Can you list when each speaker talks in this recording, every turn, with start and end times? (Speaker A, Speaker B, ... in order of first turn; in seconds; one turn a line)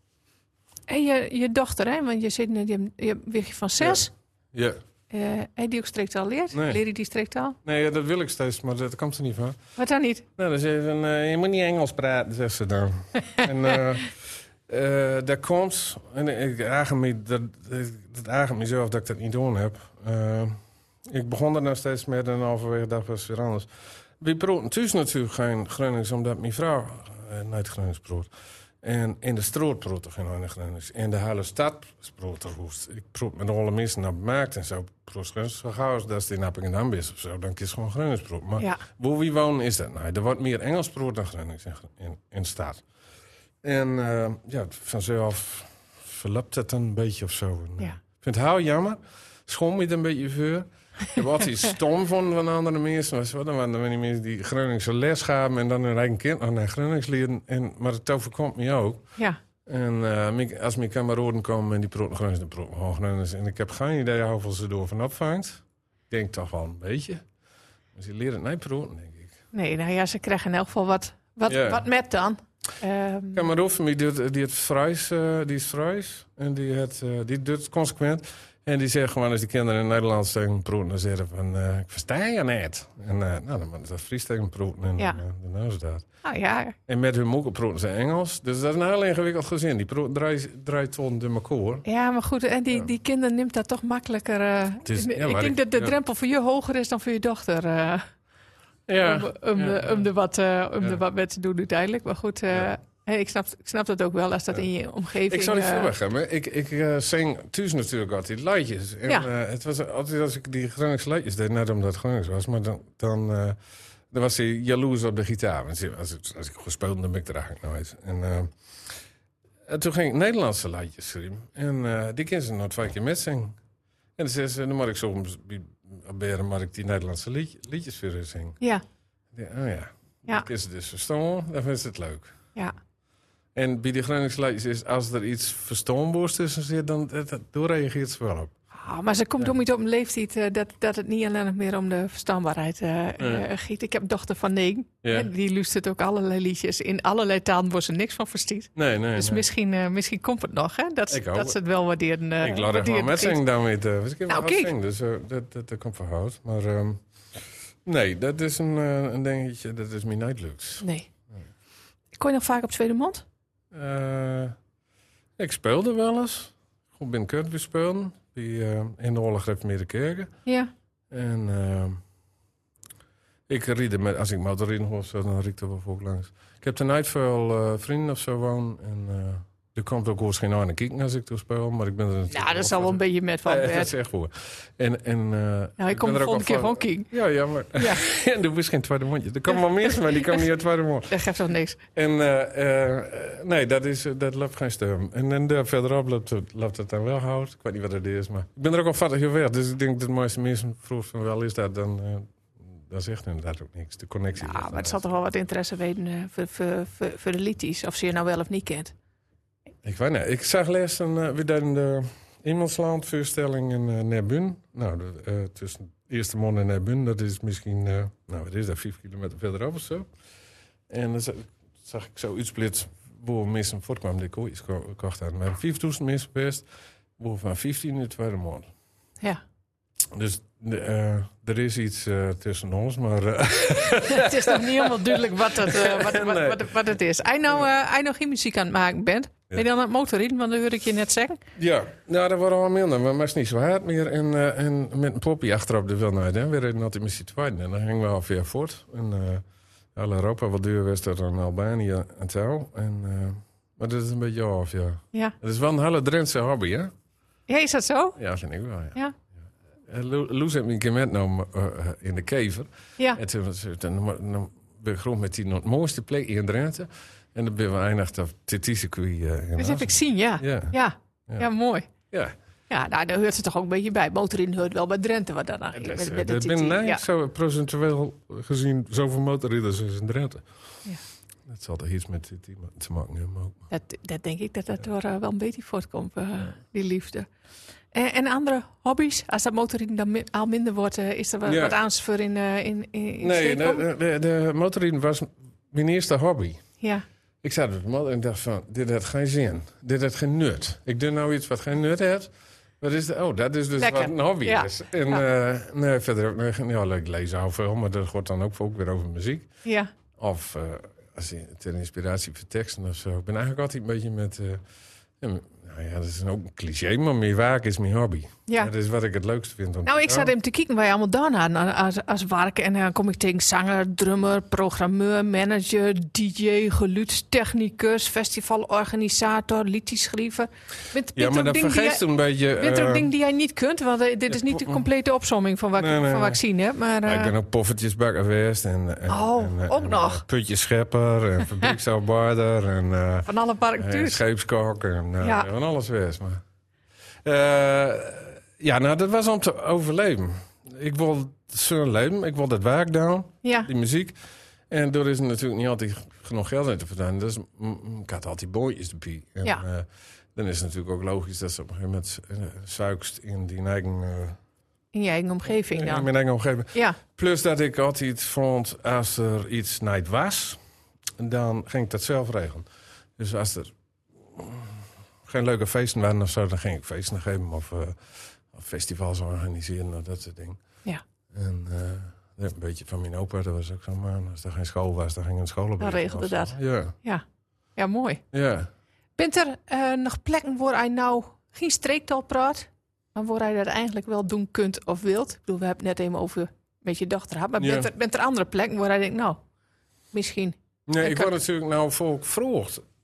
Speaker A: 0.9-4.1
Speaker B: 3.8-4.8
Speaker A: 5.1-7.6
Speaker B: 6.5-6.8
Speaker B: 7.6-9.6
Speaker A: 9.8-10.2
Speaker B: 10.3-14.1
Speaker B: 14.7-20.6
Speaker B: 21.1-23.7
Speaker B: 24.2-28.3
Speaker B: 28.8-42.8
Speaker B: 43.6-59.1
Speaker B: 59.6-67.2
Speaker B: 67.9-69.3
Speaker A: 69.5-73.5
Speaker B: 71.5-71.8
Speaker B: 73.3-86.0
Speaker A: 86.2-86.8
Speaker B: 86.9-91.8
Speaker A: 91.8-98.1
Speaker B: 94.8-95.9
Speaker B: 98.9-100.0
Speaker A: 99.0-105.9
Speaker B: 105.3-113.6
Speaker B: 114.1-118.5
Speaker B: 119.7-123.5
Speaker B: 124.2-128.6
Speaker B: 129.3-132.3
Speaker B: 133.5-138.5
Speaker A: 138.7-153.4
Speaker B: 143.2-143.4
Speaker B: 145.0-145.3
Speaker B: 148.8-149.4
Speaker B: 151.1-151.6
Speaker B: 152.4-157.0
Speaker A: 154.3-154.7
Speaker B: 157.8-160.8
Speaker A: 160.8-161.1
Speaker A: 162.2-163.2
Speaker B: 163.7-164.6
Speaker B: 165.4-170.3
Speaker A: 170.4-170.7
Speaker B: 171.1-172.0
Speaker B: 173.5-191.1
Speaker A: 182.3-183.9
Speaker A: 185.8-187.1
Speaker A: 187.7-188.0
Speaker A: 189.5-190.4
Speaker A: 191.1-191.8
Speaker B: 191.9-202.3
Speaker B: 202.9-205.0
Speaker A: 204.4-208.9
Speaker B: 209.8-220.1
Speaker B: 220.9-226.7
Speaker B: 227.2-228.7
Speaker B: 230.1-236.7
Speaker A: 234.1-241.4
Speaker B: 241.6-249.4
Speaker B: 249.9-256.9
Speaker A: 257.5-258.2
Speaker B: 258.2-259.0
Speaker B: 259.9-270.8
Speaker A: 269.6-271.9
Speaker B: 272.1-272.3
Speaker A: 272.7-277.0
Speaker B: 275.7-280.4
Speaker B: 281.5-283.7
Speaker A: 283.7-287.3
Speaker A: 287.9-293.8
Speaker B: 291.4-291.8
Speaker B: 293.2-296.6
Speaker B: 297.4-302.3
Speaker B: 302.8-309.5
Speaker A: 303.8-305.2
Speaker A: 309.6-309.9
Speaker B: 310.2-314.6
Speaker B: 315.2-320.3
Speaker A: 319.9-332.0
Speaker B: 331.1-333.1
Speaker A: 332.6-337.3
Speaker B: 334.3-334.9
Speaker B: 335.8-336.4
Speaker B: 337.0-346.4
Speaker A: 339.1-340.2
Speaker A: 343.3-344.2
Speaker A: 345.2-345.5
Speaker B: 347.2-354.1
Speaker A: 353.4-353.7
Speaker B: 354.7-364.4
Speaker A: 364.9-366.1
Speaker B: 365.7-370.6
Speaker B: 371.2-372.7
Speaker B: 373.2-373.7
Speaker B: 374.3-378.0
Speaker B: 378.5-380.6
Speaker B: 381.3-386.9
Speaker A: 385.8-387.2
Speaker A: 387.8-388.2
Speaker B: 388.3-388.7
Speaker A: 389.2-399.4
Speaker B: 397.6-397.9
Speaker A: 400.1-401.3
Speaker B: 400.9-402.8